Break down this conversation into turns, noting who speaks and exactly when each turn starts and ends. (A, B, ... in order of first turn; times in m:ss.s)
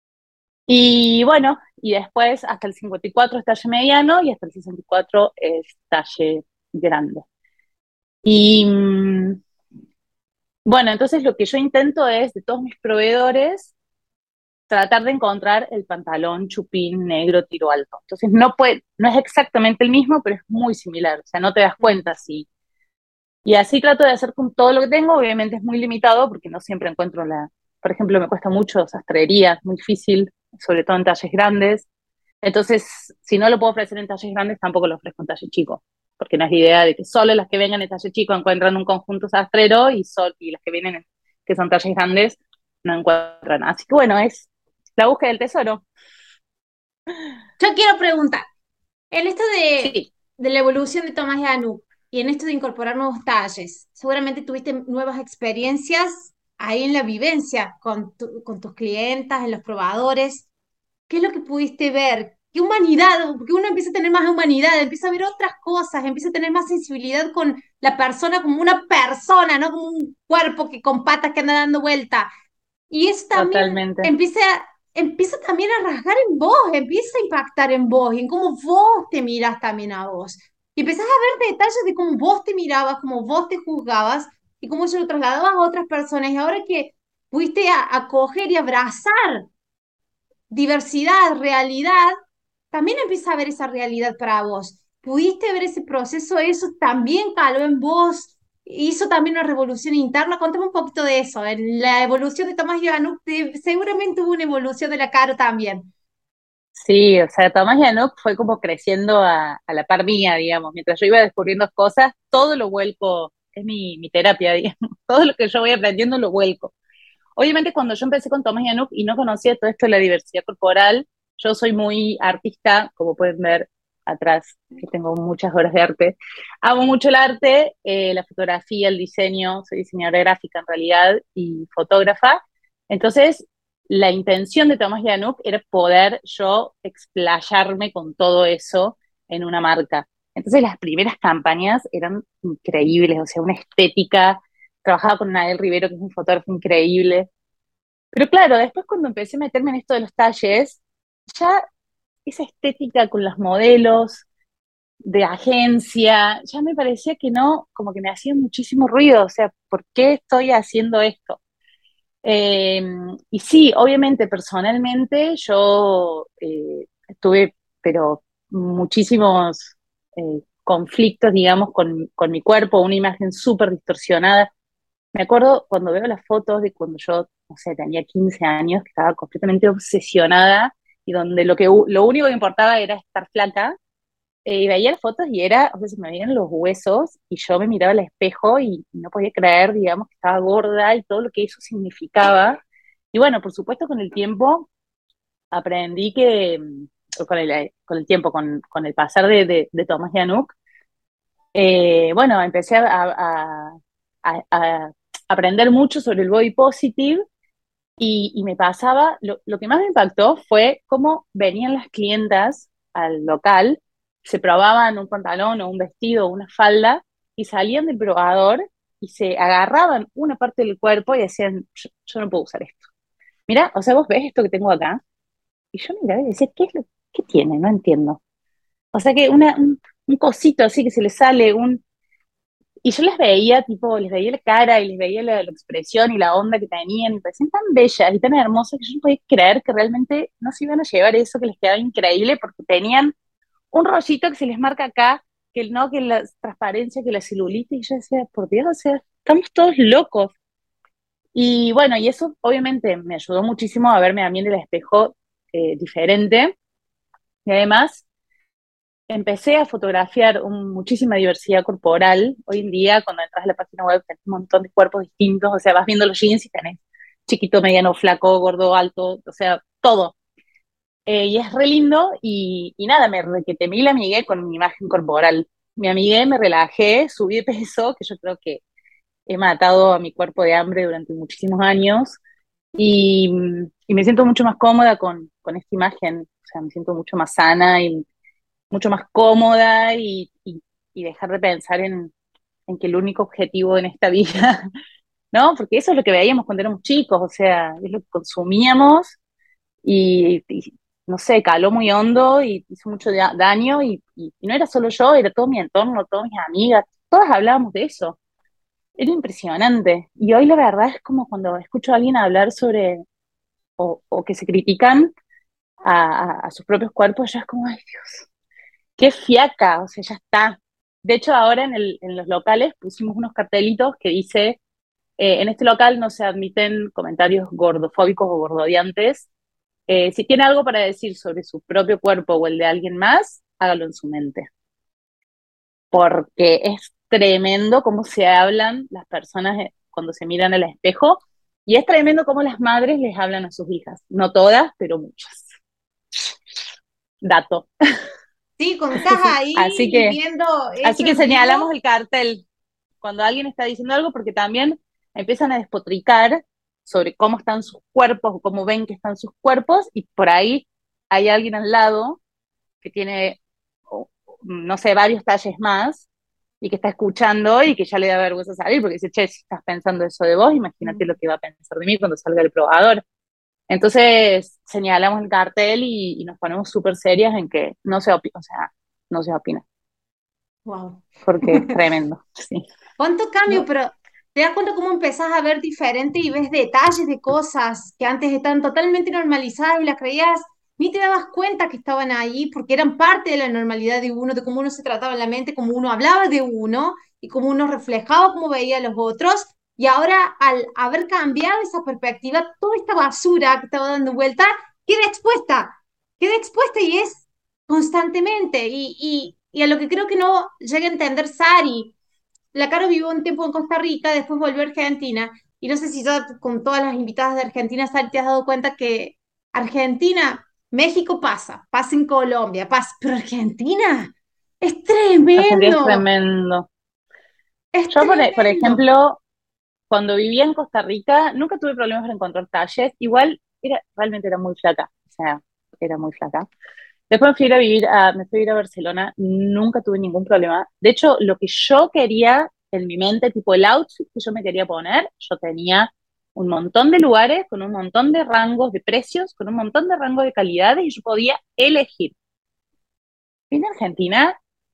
0:00.7-0:07.2 A
0:08.2-0:09.4 A
0:10.6-0:13.7 A
0:14.7-0:22.5 A
0:23.4-0:31.9 A
0:32.4-0:45.8 A
0:47.6-0:48.4 B
0:49.1-1:00.4 B
0:49.8-0:50.1 A
1:01.1-1:12.3 B
1:12.9-1:29.5 B
1:13.3-1:14.1 A
1:30.5-1:32.1 B
1:32.7-1:45.9 B
1:46.8-1:56.7 A
1:57.4-2:12.4 A
2:12.9-2:27.3 A
2:28.1-2:30.8 A
2:31.3-2:31.6 A
2:32.2-2:34.2 A
2:35.0-2:41.4 A
2:42.2-2:54.5 A
2:55.1-3:03.7 A
3:04.4-3:12.6 A
3:13.1-3:14.7 A
3:15.5-3:20.6 A
3:21.5-3:27.2 A
3:28.0-3:42.8 A
3:43.5-3:45.0 A
3:45.7-3:48.2 A
3:48.9-3:51.8 A
3:52.8-4:03.1 A
4:03.7-4:10.3 A
4:11.3-4:16.5 A
4:17.4-4:18.0 A
4:19.1-4:30.1 A
4:31.1-4:38.6 A
4:39.3-4:42.2 A
4:42.8-4:48.0 A
4:48.7-4:52.1 A
4:52.7-4:54.7 A
4:55.3-4:59.2 A
4:59.8-5:08.2 A
5:09.0-5:13.0 A
5:13.8-5:15.1 A
5:15.8-5:18.2 A
5:19.0-5:24.6 A
5:25.2-5:29.3 A
5:29.9-5:34.5 A
5:35.9-5:45.5 A
5:47.2-5:47.7 A
5:48.6-5:51.7 B
5:49.5-5:50.2 A
5:50.8-5:52.4 A
5:53.0-6:02.2 A
6:02.8-6:03.4 A
6:03.9-6:06.1 A
6:06.6-6:13.0 A
6:10.8-6:11.1 B
6:13.7-6:19.6 A
6:20.6-6:21.7 B
6:21.2-6:22.6 A
6:23.0-6:51.9 B
6:52.5-7:06.0 B
7:05.4-7:06.7 A
7:07.7-7:08.8 B
7:07.9-7:09.2 A
7:09.9-7:16.5 A
7:17.1-7:32.1 A
7:33.5-7:34.3 A